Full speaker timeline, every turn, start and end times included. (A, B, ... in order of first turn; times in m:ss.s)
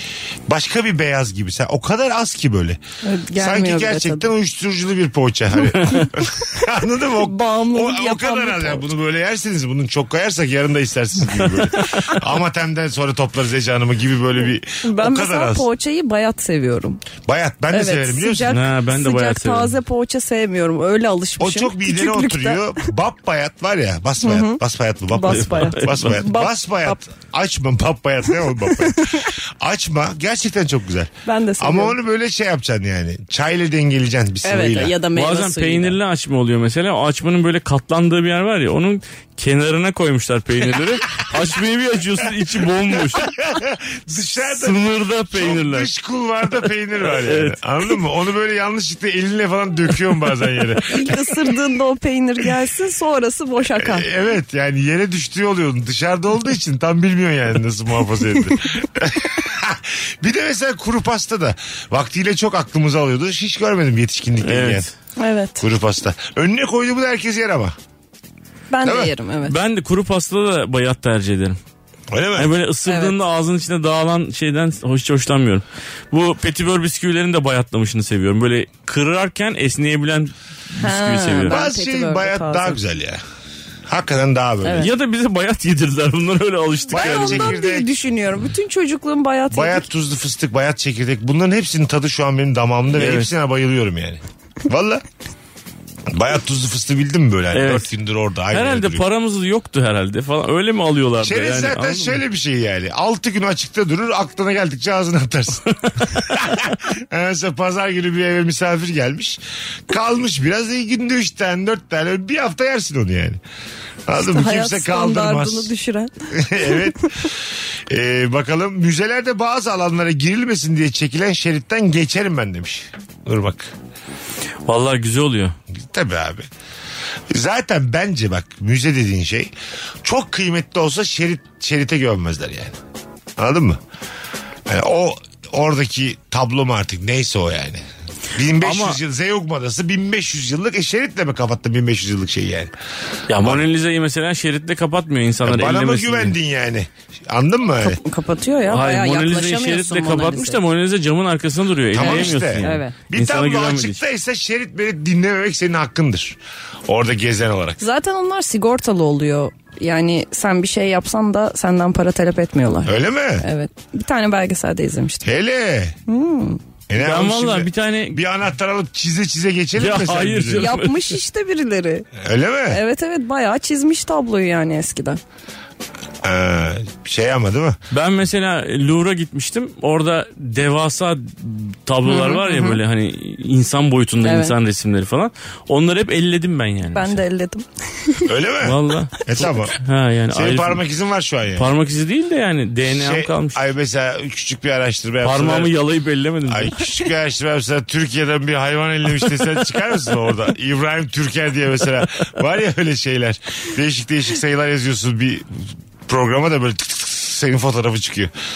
0:00.5-0:02.8 A
0:03.0-0:04.3 B
0:03.4-0:15.7 A
0:07.2-0:08.8 B
0:14.8-0:17.0 B
0:17.2-0:18.6 A
0:17.7-0:22.8 B
0:18.5-0:19.8 C
0:21.4-0:35.0 A
0:24.2-0:24.6 B
0:25.1-0:27.0 B
0:25.3-0:26.2 C
0:28.8-0:29.2 B
0:31.2-0:32.0 B
0:34.4-0:36.0 B
0:35.1-0:43.3 C
0:43.1-0:51.4 A
0:44.5-0:45.9 C
0:47.0-0:47.6 C
0:50.9-0:54.1 B
0:53.8-1:04.9 A
1:04.4-1:04.9 C
1:05.2-1:05.6 B
1:05.6-1:07.7 A
1:08.7-1:09.6 B
1:08.8-1:09.1 A
1:09.4-1:11.6 C
1:12.1-1:12.5 A
1:12.4-1:21.6 C
1:12.9-1:13.1 B
1:20.8-1:22.8 B
1:21.4-1:23.2 A
1:23.9-1:24.9 A
1:24.6-1:24.9 B
1:24.8-1:27.5 C
1:26.9-1:27.9 A
1:26.9-1:29.8 B
1:29.5-1:35.0 A
1:32.9-1:33.3 C
1:36.1-1:39.0 A
1:37.5-1:37.9 C
1:38.5-1:42.2 C
1:41.2-1:53.4 A
1:54.1-1:55.7 A
1:54.2-1:57.1 B
1:56.3-1:57.3 A
1:57.9-2:03.7 A
2:04.6-2:05.6 C
2:05.7-2:06.5 A
2:07.3-2:09.5 A
2:10.0-2:12.8 A
2:13.4-2:13.8 A
2:14.7-2:17.8 A
2:18.3-2:22.7 A
2:18.6-2:19.0 C
2:23.3-2:26.4 C
2:23.4-2:23.6 A
2:25.4-2:28.0 A
2:27.8-2:30.6 B
2:28.7-2:34.0 C
2:31.9-2:37.8 A
2:32.0-2:32.9 B
2:37.8-2:45.3 B
2:42.8-2:43.4 A
2:45.2-2:46.0 A
2:46.1-2:46.6 B
2:46.9-2:50.8 A
2:47.0-2:48.2 C
2:49.8-2:51.2 C
2:50.6-2:52.1 B
2:52.2-2:52.8 A
2:52.7-2:55.2 B
2:56.2-2:57.8 A
2:57.9-3:07.2 C
3:02.0-3:02.8 B
3:04.2-3:04.5 B
3:06.9-3:08.3 B
3:08.2-3:09.7 A
3:08.6-3:10.8 C
3:10.3-3:11.7 A
3:11.6-3:13.6 C
3:12.8-3:15.7 A
3:15.2-3:16.8 C
3:16.5-3:28.3 A